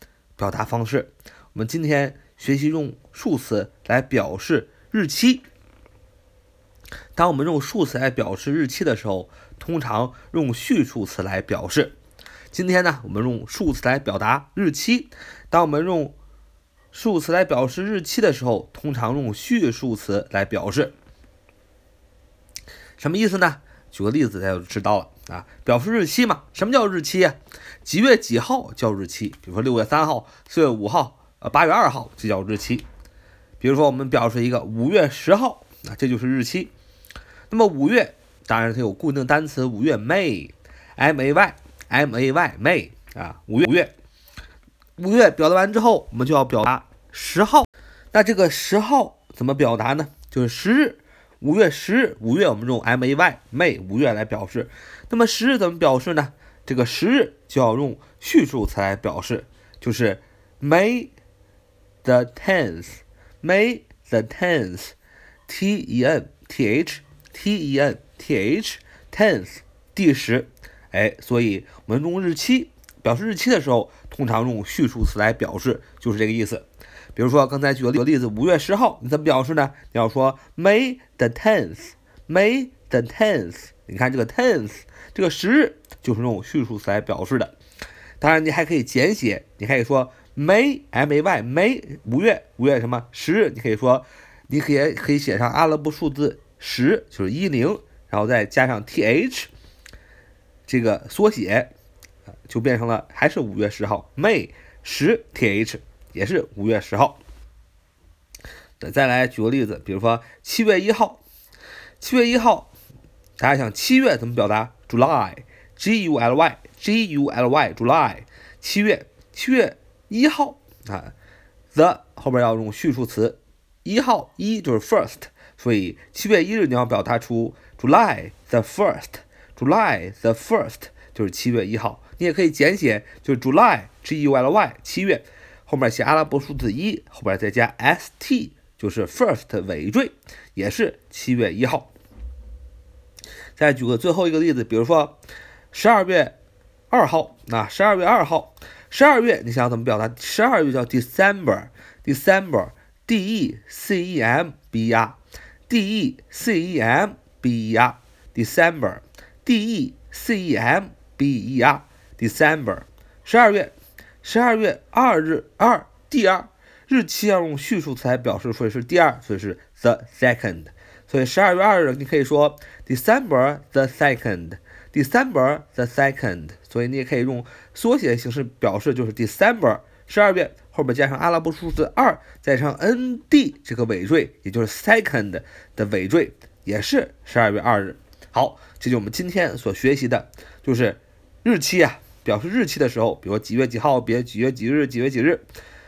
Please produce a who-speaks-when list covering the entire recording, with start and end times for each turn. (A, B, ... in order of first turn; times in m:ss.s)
0:00.4-0:05.4 A
0:07.2-0:12.0 A
0:12.5-0:16.2 A
0:16.9-0:20.9 A
0:23.0-0:32.8 A
0:33.6-0:36.7 A
0:37.5-0:43.9 A
0:45.0-1:01.1 A
1:02.0-1:05.0 A
1:05.5-1:16.6 A
1:17.2-1:27.6 A
1:28.2-1:39.5 A
1:40.7-1:41.7 A
1:42.5-1:47.2 A
1:48.8-1:51.2 A
1:52.0-1:52.7 A
1:53.4-2:01.1 A
2:01.7-2:21.9 A
2:23.6-2:25.2 A
2:25.7-2:26.4 A
2:26.9-3:15.4 A